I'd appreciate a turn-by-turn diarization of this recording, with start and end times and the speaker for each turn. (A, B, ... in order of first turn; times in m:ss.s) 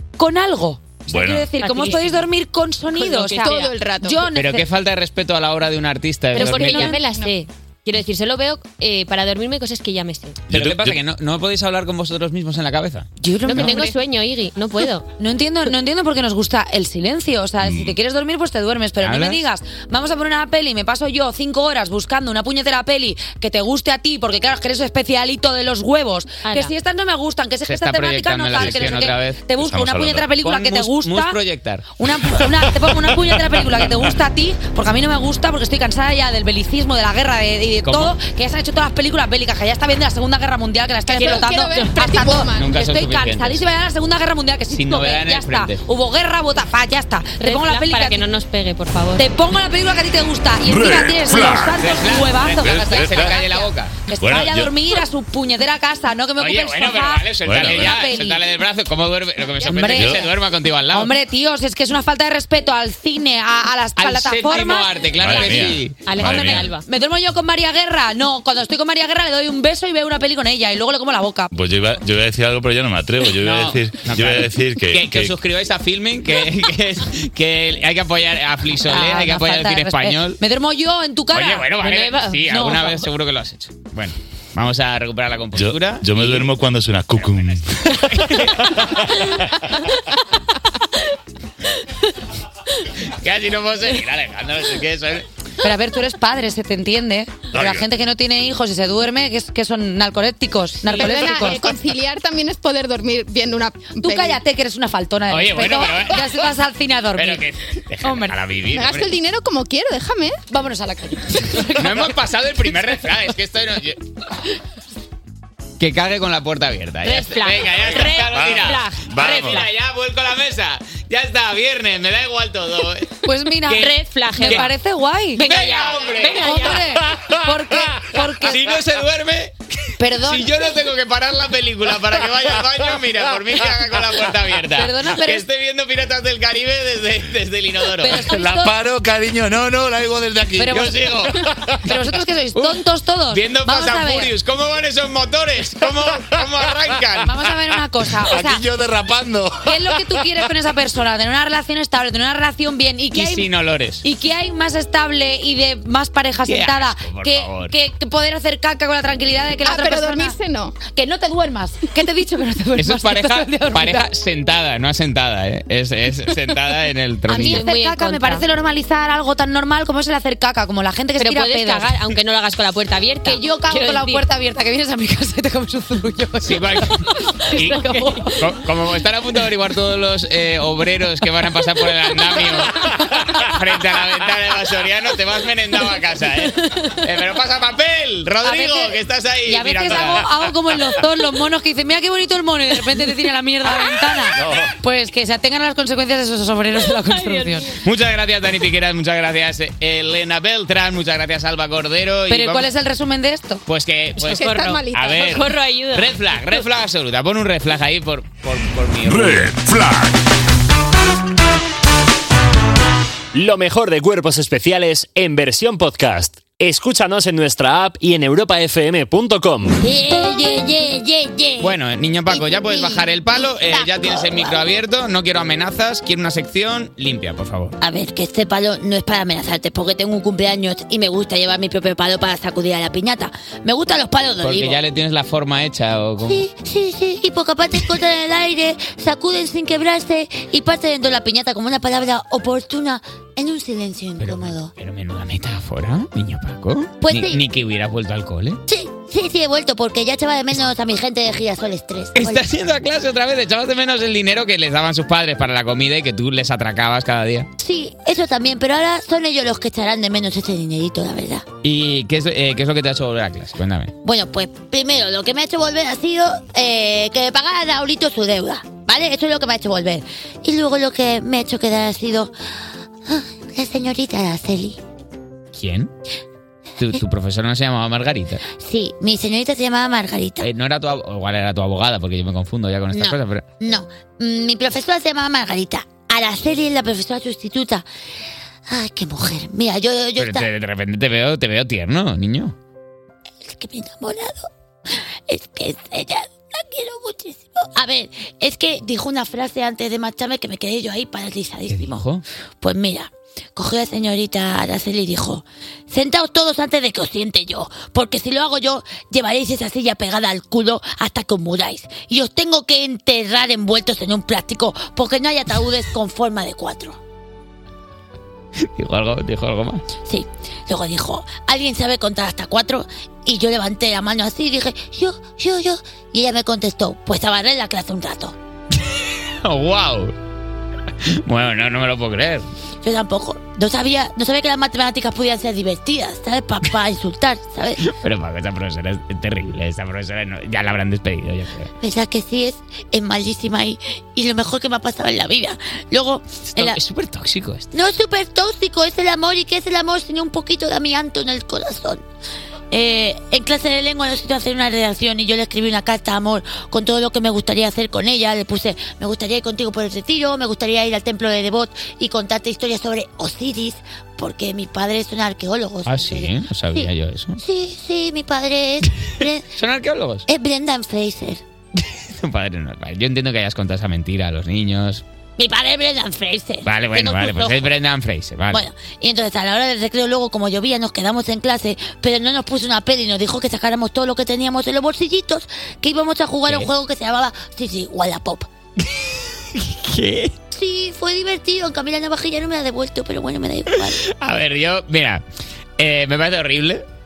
0:00.2-0:04.7 A
0:01.1-0:01.5 B
0:01.6-0:02.2 C
0:03.0-0:03.7 C
0:03.4-0:04.2 D
0:04.3-0:07.0 E
0:06.3-0:10.4 C
0:06.4-0:07.0 A
0:07.0-0:07.3 D
0:10.5-0:11.0 B
0:10.5-0:13.7 E
0:13.2-0:13.8 A
0:13.4-0:15.0 C
0:13.6-0:14.0 D
0:15.2-0:31.4 A
0:17.6-0:17.9 B
0:19.0-0:19.4 E
0:26.4-0:26.7 C
0:27.7-0:29.5 E
0:28.6-0:30.3 B
0:30.2-0:31.9 E
0:32.0-0:48.2 A
0:37.8-0:38.1 E
0:41.1-0:42.7 D
0:42.5-0:43.6 E
0:44.7-0:45.8 E
0:47.4-0:49.2 C
0:49.2-0:58.4 A
0:50.7-0:51.9 B
0:51.8-0:54.0 E
0:52.6-0:53.4 B
0:54.2-0:54.9 B
0:56.4-1:01.1 E
0:57.4-0:58.0 B
0:59.6-1:00.3 A
0:59.8-1:00.2 B
1:00.9-1:11.5 A
1:04.0-1:06.6 E
1:05.2-1:06.7 B
1:06.0-1:06.8 C
1:11.5-1:15.3 B
1:13.3-1:20.4 E
1:18.9-1:23.0 A
1:21.3-1:26.5 E
1:21.8-1:22.2 C
1:25.6-1:28.0 B
1:27.1-1:29.4 E
1:33.1-1:35.2 E
1:35.6-1:41.7 A
1:37.5-1:37.9 B
1:40.9-1:44.4 D
1:44.0-1:47.4 A
1:45.3-1:46.3 E
1:47.2-1:49.2 E
1:48.0-1:48.3 A
1:48.7-1:50.4 D
1:50.5-1:52.1 A
1:51.7-1:54.0 E
1:55.8-2:03.1 E
1:57.0-1:59.6 C
1:58.3-1:59.7 B
2:03.2-2:05.5 A
2:03.6-2:04.7 C
2:04.4-2:04.6 E
2:05.4-2:06.9 C
2:05.4-2:06.8 E
2:06.4-2:08.7 A
2:08.4-2:09.5 E
2:10.0-2:10.5 A
2:10.2-2:18.3 E
2:14.7-2:15.4 A
2:18.0-2:18.8 A
2:18.1-2:21.8 B
2:20.6-2:21.0 A
2:20.7-2:21.4 E
2:21.8-2:24.3 A
2:22.6-2:27.3 E
2:27.2-2:28.6 A
2:28.2-2:30.2 B
2:29.6-2:33.5 A
2:33.1-2:34.0 E
2:34.0-2:40.3 A
2:36.5-2:37.7 E
2:39.6-2:40.7 D
2:40.9-2:44.1 A
2:42.8-2:47.6 E
2:47.3-2:52.0 A
2:47.3-2:48.4 C
2:51.2-2:54.2 C
2:53.2-2:58.4 A
2:56.4-2:57.8 E
2:57.5-2:58.3 C
2:58.3-3:10.4 E
3:08.4-3:17.7 A
3:17.0-3:17.7 C
3:17.8-3:22.7 E
3:22.3-3:23.6 A
3:23.7-3:29.6 E
3:24.3-3:25.4 D
3:24.3-3:26.1 C
3:29.1-3:30.1 B
3:33.3-3:39.7 F
3:39.8-3:41.8 G
3:41.6-3:47.7 E
3:42.3-3:44.6 G
3:47.8-3:54.8 G
3:54.4-3:56.4 E
3:56.2-4:04.7 G
4:04.2-4:08.6 E
4:07.0-4:07.4 G
4:08.7-4:12.4 G
4:12.2-4:17.5 E
4:17.6-4:21.4 G
4:21.6-4:23.9 E
4:24.0-4:32.3 G
4:33.1-4:34.8 G
4:35.5-4:35.9 E
4:36.8-4:38.4 E
4:38.5-4:40.5 G
4:40.4-4:43.4 E
4:42.9-4:47.8 G
4:48.7-4:50.5 G
4:50.2-4:52.5 E
4:53.4-5:02.0 G
5:01.7-5:02.2 E
5:02.6-5:17.0 G
5:18.7-5:19.8 E
5:20.0-5:28.3 G
5:28.9-5:30.1 E
5:31.1-5:32.4 E
5:32.8-5:37.9 G
5:37.9-5:41.7 E
5:41.8-5:46.8 G
5:46.5-5:47.7 E
5:47.7-5:52.0 G
5:52.7-6:09.4 G
6:05.8-6:07.4 E
6:09.1-6:10.3 E
6:10.3-6:11.4 G
6:11.8-6:15.0 E
6:15.4-6:17.7 G
6:16.6-6:18.6 E
6:18.5-6:28.5 G
6:28.8-6:30.3 E
6:30.5-6:34.0 G
6:33.8-6:35.2 E
6:35.8-6:36.8 E